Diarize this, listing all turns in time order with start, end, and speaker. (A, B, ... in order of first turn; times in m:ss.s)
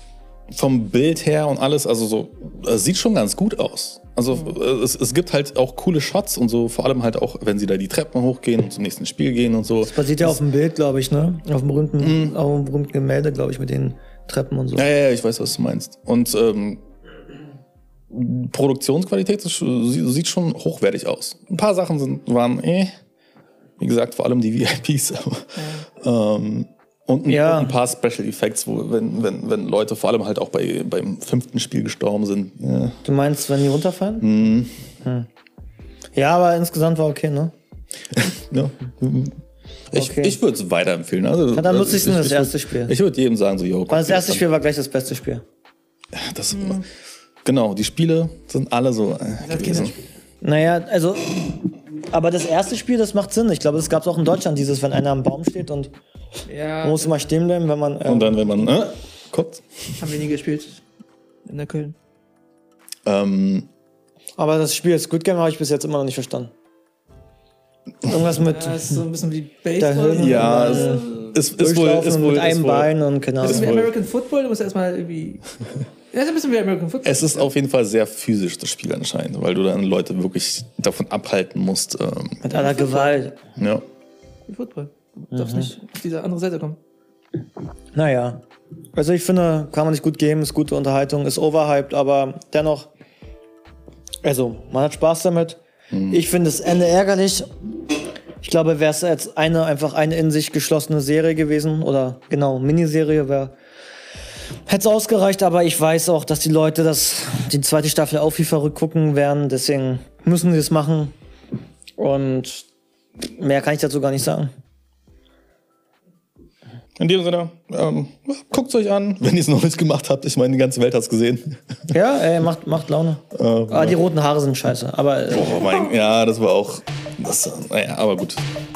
0:00.5-0:10.4 A
0:09.8-0:14.9 B
0:12.0-0:12.4 A
0:14.8-0:16.8 A
0:18.1-0:22.9 A
0:23.8-0:33.0 A
0:25.6-0:25.9 C
0:27.3-0:27.8 B
0:33.0-0:34.3 B
0:34.2-0:34.7 A
0:35.0-0:35.3 B
0:36.2-0:37.5 B
0:38.1-0:39.4 A
0:39.9-0:44.5 A
0:40.0-0:40.4 B
0:41.5-0:43.0 B
0:43.9-0:45.4 B
0:46.1-0:46.9 A
0:46.5-0:46.8 C
0:47.4-0:50.0 A
0:49.4-0:50.0 C
0:50.4-0:55.9 B
0:56.5-0:57.3 C
0:56.8-0:58.7 B
0:58.0-0:59.6 A
1:00.0-1:00.8 C
1:01.5-1:02.0 C
1:03.1-1:03.7 A
1:04.4-1:06.5 B
1:08.0-1:09.0 B
1:08.4-1:11.4 C
1:09.8-1:13.7 B
1:10.2-1:13.9 A
1:13.4-1:15.4 C
1:16.1-1:17.5 C
1:17.0-1:22.4 A
1:22.4-1:23.4 B
1:22.5-1:23.3 C
1:23.6-1:23.8 A
1:24.5-1:26.8 C
1:25.3-1:25.7 B
1:28.0-1:28.4 B
1:29.0-1:32.9 B
1:34.2-1:37.5 B
1:38.4-1:43.5 B
1:44.7-1:51.1 B
1:52.0-1:52.7 B
1:53.2-1:54.5 B
1:57.0-2:01.6 A
2:01.9-2:05.7 B
2:03.3-2:04.0 A
2:05.3-2:08.4 A